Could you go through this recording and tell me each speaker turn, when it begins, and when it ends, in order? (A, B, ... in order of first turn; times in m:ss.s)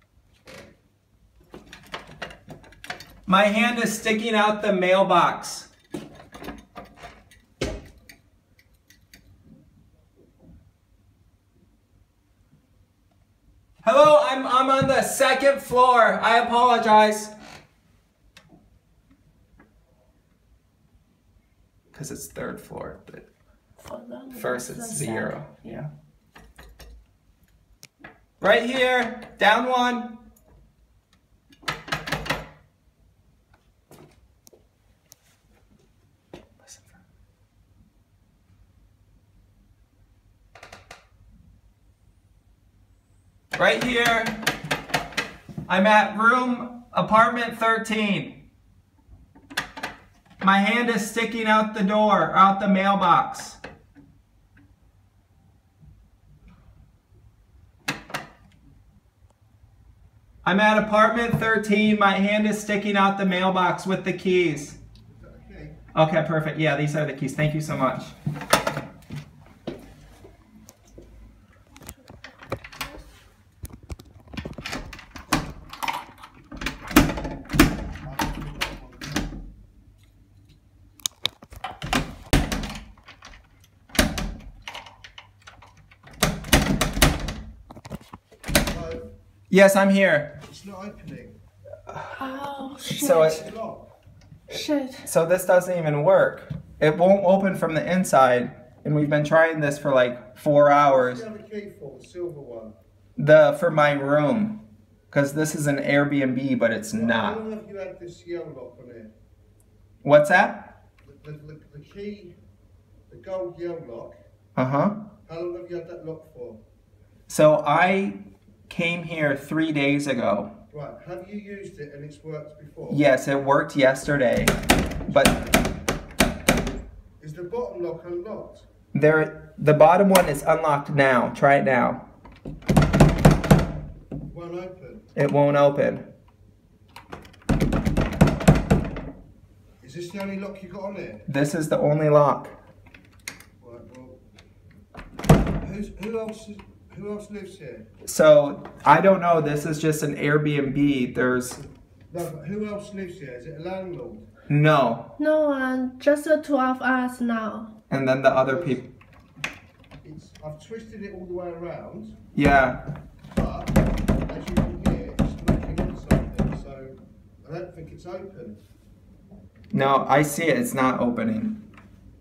0:03.3-0:05.7 A
0:13.8-0:17.3 A
0:21.9-0:23.3 A
0:23.8-0:25.8 B
0:24.3-0:25.9 A
0:28.4-0:30.2 A
0:36.6-0:37.0 A
0:43.6-0:44.4 A
0:45.7-0:48.4 A
0:50.4-0:53.6 A
1:00.4-1:04.8 A
1:05.1-1:05.8 C
1:06.0-1:08.1 A
1:18.0-1:19.3 C
1:28.7-1:29.1 C
1:29.5-1:30.4 A
1:30.4-1:31.4 C
1:32.2-1:33.3 B
1:32.9-1:33.4 A
1:33.0-1:33.9 C
1:34.5-1:35.0 B
1:35.0-1:41.2 A
1:40.9-1:42.8 C
1:43.2-1:47.4 A
1:46.9-1:49.1 C
1:50.0-1:50.7 A
1:51.0-1:52.4 C
1:53.1-1:54.1 C
1:54.6-1:55.0 A
1:55.3-1:56.6 C
1:57.3-1:58.2 A
1:58.7-2:00.5 A
2:00.7-2:03.0 C
2:02.9-2:04.6 A
2:05.0-2:05.7 C
2:05.1-2:05.3 A
2:07.2-2:08.7 C
2:08.9-2:12.0 A
2:14.3-2:15.1 C
2:15.2-2:16.0 A
2:19.8-2:21.3 C
2:21.3-2:22.6 A
2:23.6-2:24.2 C
2:25.6-2:27.9 C
2:28.0-2:31.6 A
2:32.1-2:34.3 C
2:34.5-2:35.1 A
2:35.2-2:37.7 B
2:37.9-2:38.9 A
2:38.4-2:38.9 C
2:40.0-2:42.2 C
2:42.4-2:42.8 A
2:43.3-2:48.6 C
2:49.7-2:51.6 A